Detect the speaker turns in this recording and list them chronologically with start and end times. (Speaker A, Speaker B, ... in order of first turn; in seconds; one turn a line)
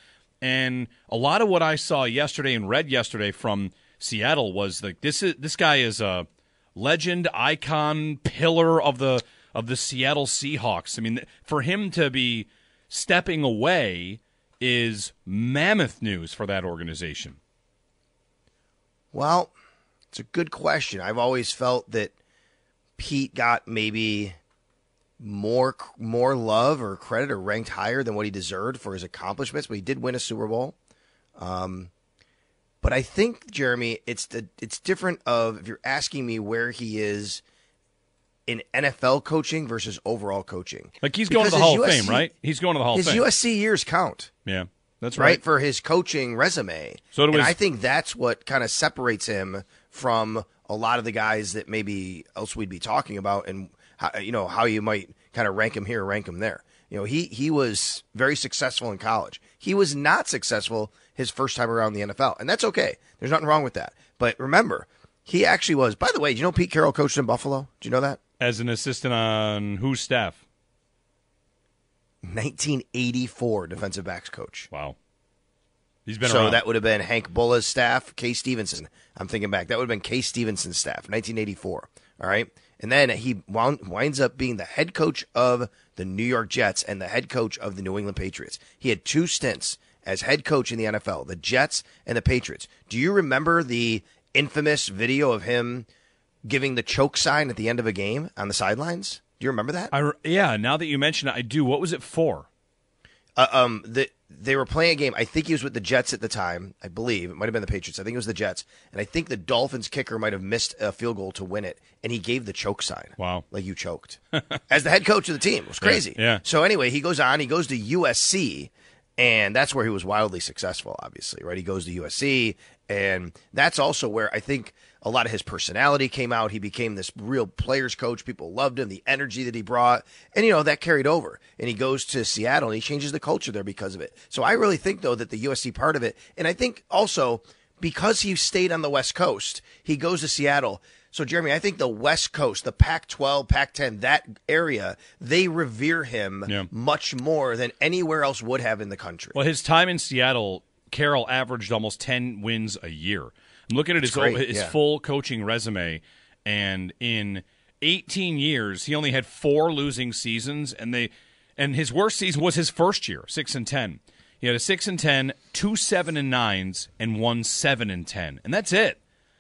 Speaker A: 0.4-17.4
Speaker B: 19.1-19.5
Speaker B: 20.1-22.1
Speaker B: 23.0-24.4
Speaker B: 25.2-30.8
Speaker B: 31.4-31.9
Speaker B: 32.8-37.4
Speaker B: 38.5-42.3
Speaker A: 41.0-43.3
Speaker B: 42.9-44.3
Speaker A: 44.5-45.4
Speaker B: 45.2-68.2
Speaker A: 47.1-47.6
Speaker A: 68.4-70.4
Speaker B: 72.2-74.7
Speaker A: 74.7-75.0
Speaker A: 76.1-76.6
Speaker B: 76.2-95.9
Speaker B: 96.5-99.9
Speaker A: 99.9-102.5
Speaker B: 103.4-149.4
Speaker A: 113.2-113.5
Speaker A: 114.3-114.6
Speaker A: 115.8-116.4
Speaker A: 149.3-169.0
Speaker B: 154.0-154.7